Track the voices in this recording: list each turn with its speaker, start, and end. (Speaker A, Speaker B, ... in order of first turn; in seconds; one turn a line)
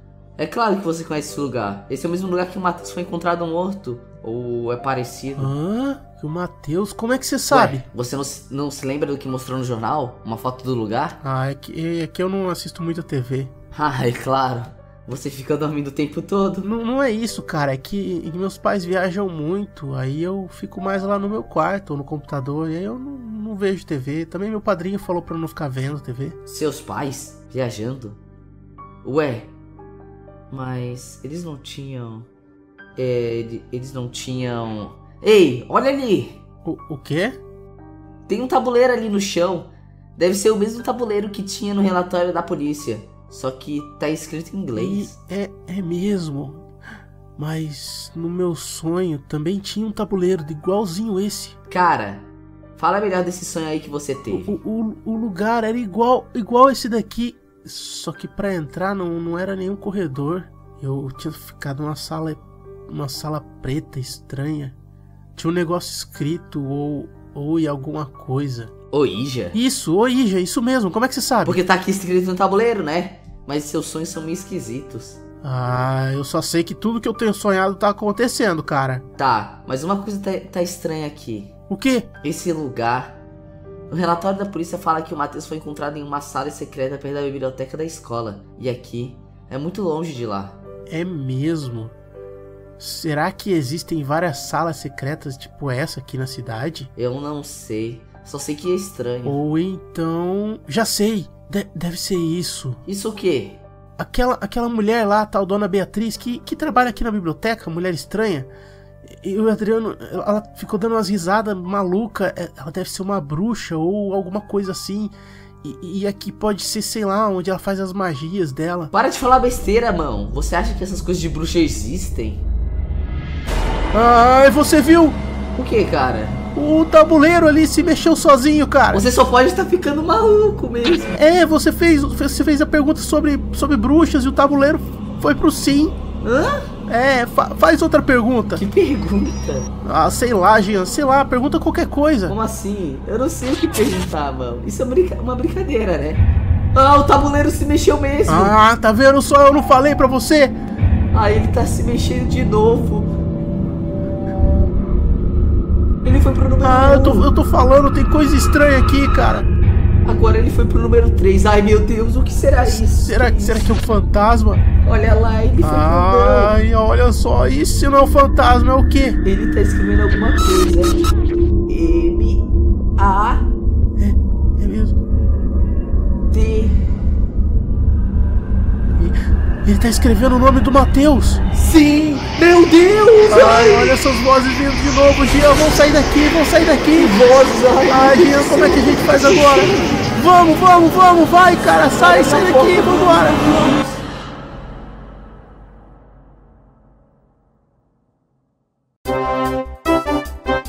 Speaker A: 0.4-5.5
Speaker B: 5.4-7.8
Speaker A: 7.5-11.2
Speaker B: 11.2-13.5
Speaker A: 13.7-16.7
Speaker B: 16.6-26.4
Speaker A: 26.4-28.2
Speaker A: 29.0-29.5
Speaker A: 30.5-32.3
Speaker A: 33.0-36.4
Speaker B: 36.6-37.4
Speaker A: 38.3-45.1
Speaker B: 44.8-46.6
Speaker B: 47.4-51.5
Speaker A: 51.7-52.2
Speaker A: 52.8-54.6
Speaker B: 54.3-64.8
Speaker B: 65.3-68.7
Speaker A: 68.9-69.5
Speaker B: 69.5-71.6
Speaker A: 71.4-75.2
Speaker B: 75.4-79.0
Speaker A: 79.2-81.5
Speaker B: 81.7-82.1
Speaker A: 82.2-83.2
Speaker A: 83.9-90.5
Speaker B: 90.9-91.9
Speaker B: 92.8-96.9
Speaker A: 97.0-99.4
Speaker B: 99.2-102.8
Speaker A: 102.8-103.6
Speaker B: 104.0-108.5
Speaker B: 109.0-118.9
Speaker A: 118.9-122.4
Speaker B: 123.9-125.2
Speaker A: 125.5-126.4
Speaker B: 126.5-129.0
Speaker A: 128.9-131.2
Speaker B: 131.2-135.9
Speaker A: 136.2-136.7
Speaker B: 136.9-138.6
Speaker A: 138.5-139.7
Speaker B: 139.8-142.3
Speaker A: 142.3-148.5
Speaker B: 148.3-150.6
Speaker A: 151.1-153.1
Speaker A: 156.0-157.3
Speaker B: 156.6-159.5
Speaker A: 160.0-163.8
Speaker B: 162.6-164.6
Speaker A: 164.8-166.5
Speaker B: 165.6-169.2
Speaker A: 169.2-171.1
Speaker A: 171.7-173.5
Speaker B: 174.0-174.9
Speaker A: 176.3-176.8
Speaker B: 179.0-181.4
Speaker A: 181.5-183.9
Speaker B: 183.3-187.3
Speaker A: 186.9-190.0
Speaker B: 187.9-193.5
Speaker A: 192.0-194.0